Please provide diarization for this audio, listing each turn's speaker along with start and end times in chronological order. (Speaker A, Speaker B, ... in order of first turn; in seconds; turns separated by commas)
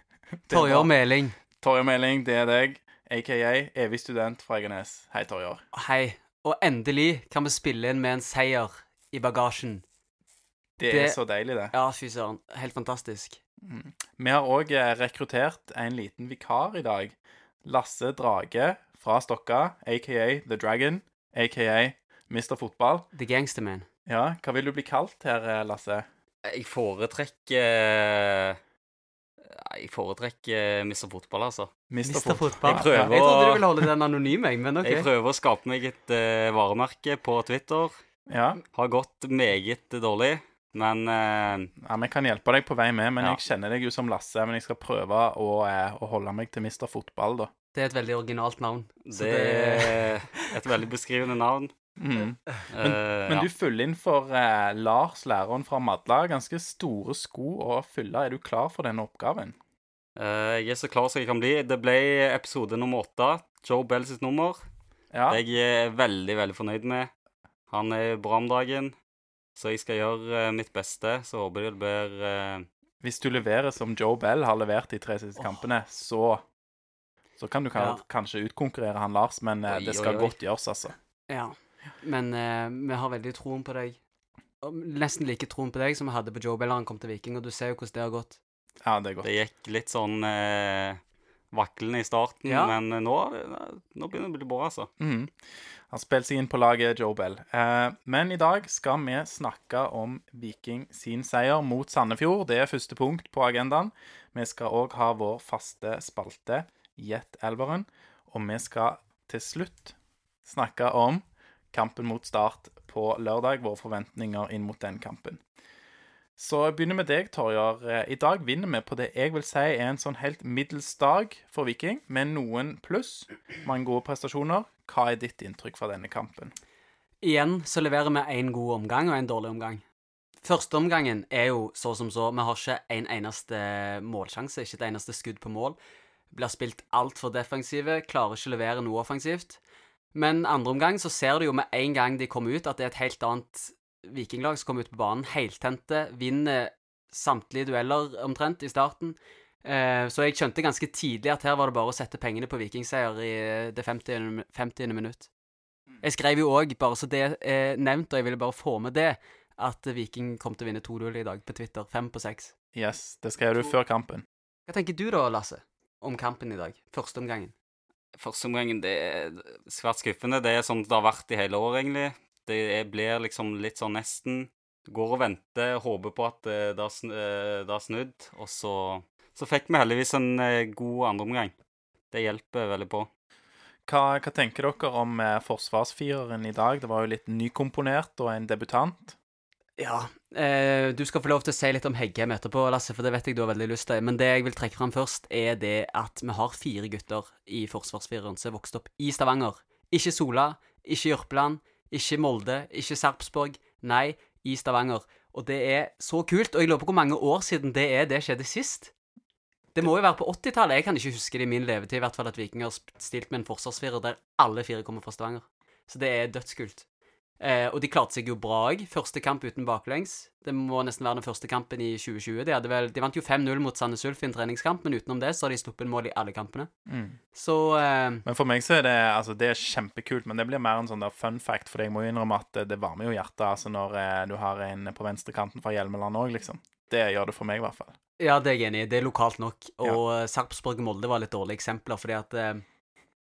Speaker A: 0.5-0.9, Speaker B: 0.5-1.4, Speaker A: 1.6-5.6, Speaker B: 5.7-9.8, Speaker A: 10.8-11.7, Speaker B: 10.9-11.2, Speaker B: 11.7-13.4, Speaker A: 13.6-23.1, Speaker B: 23.1-23.9, Speaker A: 24.1-26.1, Speaker C: 26.4-28.6, Speaker C: 29.4-31.7, Speaker A: 31.9-33.2, Speaker B: 32.0-35.1, Speaker C: 32.7-33.7, Speaker C: 34.8-38.0, Speaker A: 38.3-38.6, Speaker C: 38.7-41.7, Speaker A: 41.8-47.5, Speaker B: 47.7-50.5, Speaker C: 49.1-51.7, Speaker A: 52.0-59.6, Speaker C: 52.7-53.5, Speaker C: 60.2-64.6, Speaker A: 65.1-65.4, Speaker C: 65.3-67.1, Speaker C: 67.7-68.9, Speaker C: 69.6-72.7, Speaker A: 73.0-76.4, Speaker A: 77.4-81.0, Speaker B: 77.8-78.0, Speaker C: 79.7-80.4, Speaker B: 81.3-84.0, Speaker B: 84.6-88.4, Speaker A: 88.8-89.3, Speaker C: 89.2-91.0, Speaker C: 91.5-94.9, Speaker B: 92.5-92.8, Speaker A: 95.0-95.3, Speaker A: 95.9-115.4, Speaker A: 116.4-126.5, Speaker B: 127.2-129.8, Speaker B: 130.4-135.8, Speaker B: 136.3-139.6, Speaker B: 140.1-155.3, Speaker B: 156.0-162.5, Speaker A: 162.7-164.3, Speaker B: 164.7-167.5, Speaker C: 168.2-181.5, Speaker C: 182.1-183.1, Speaker A: 183.9-189.2, Speaker B: 189.8-208.9, Speaker B: 209.8-216.8, Speaker B: 217.4-226.7, Speaker A: 226.9-227.2, Speaker B: 227.3-228.2, Speaker A: 228.3-237.9, Speaker B: 238.2-242.6